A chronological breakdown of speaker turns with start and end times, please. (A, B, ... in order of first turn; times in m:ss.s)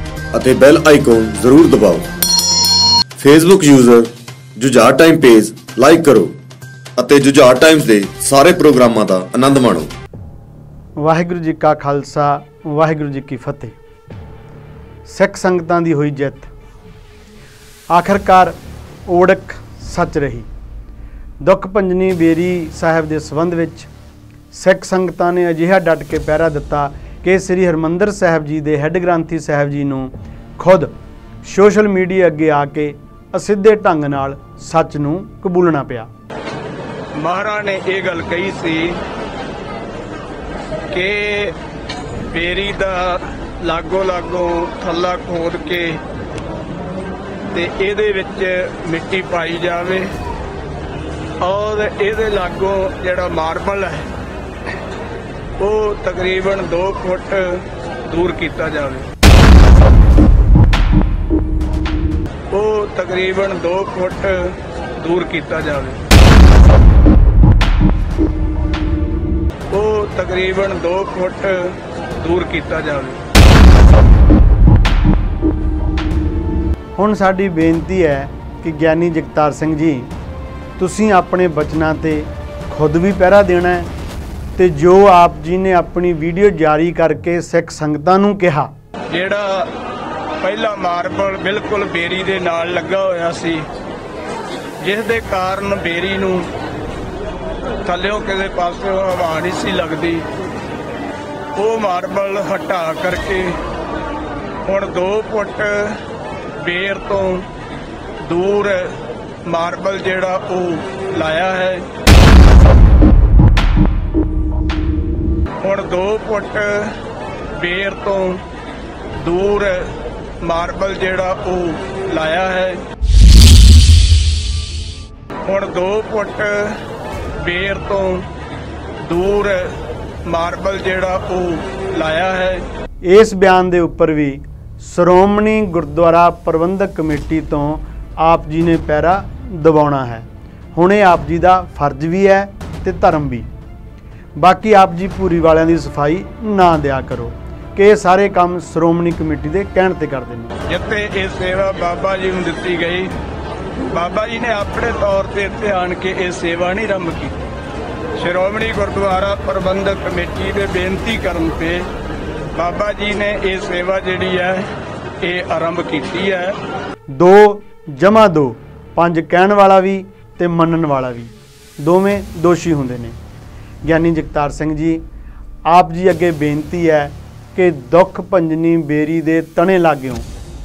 0:00.3-0:02.1 A
0:03.2-0:06.4 A
0:07.0-0:09.9 A
0:11.0-0:13.8 B
0:15.0-0:16.5 B
0:17.9-0:20.5 B
0:21.4-0:23.9 B
0:24.5-0:30.9 B
0:31.4-0:36.1 B
0:37.2-0:39.0 C
0:40.9-0:41.5 C
0:42.3-0:46.0 C
0:47.5-0:50.1 C
0:51.4-0:54.1 C
0:55.6-0:59.1 C
1:02.5-1:06.0 C
1:09.7-1:13.2 C
1:17.0-1:20.1 B
1:20.8-1:23.9 B
1:24.5-1:28.7 B
1:29.1-1:29.7 C
1:30.4-1:33.6 C
1:34.8-1:36.5 C
1:37.8-1:40.3 C
1:41.6-1:43.6 C
1:44.6-1:46.0 C
1:46.6-1:47.5 C
1:48.2-1:51.8 C
1:55.6-1:57.0 C
1:57.5-1:58.4 C
1:59.2-2:02.8 C
2:05.4-2:06.8 C
2:07.4-2:08.3 C
2:09.0-2:12.6 C
2:13.0-2:23.5 B
2:24.4-2:30.5 B
2:30.7-2:33.1 C
2:33.9-2:37.4 C
2:38.2-2:41.9 C
2:42.5-2:44.7 C
2:45.2-2:46.6 C
2:47.1-2:53.2 B
2:53.8-2:55.0 B
2:55.6-3:00.3 B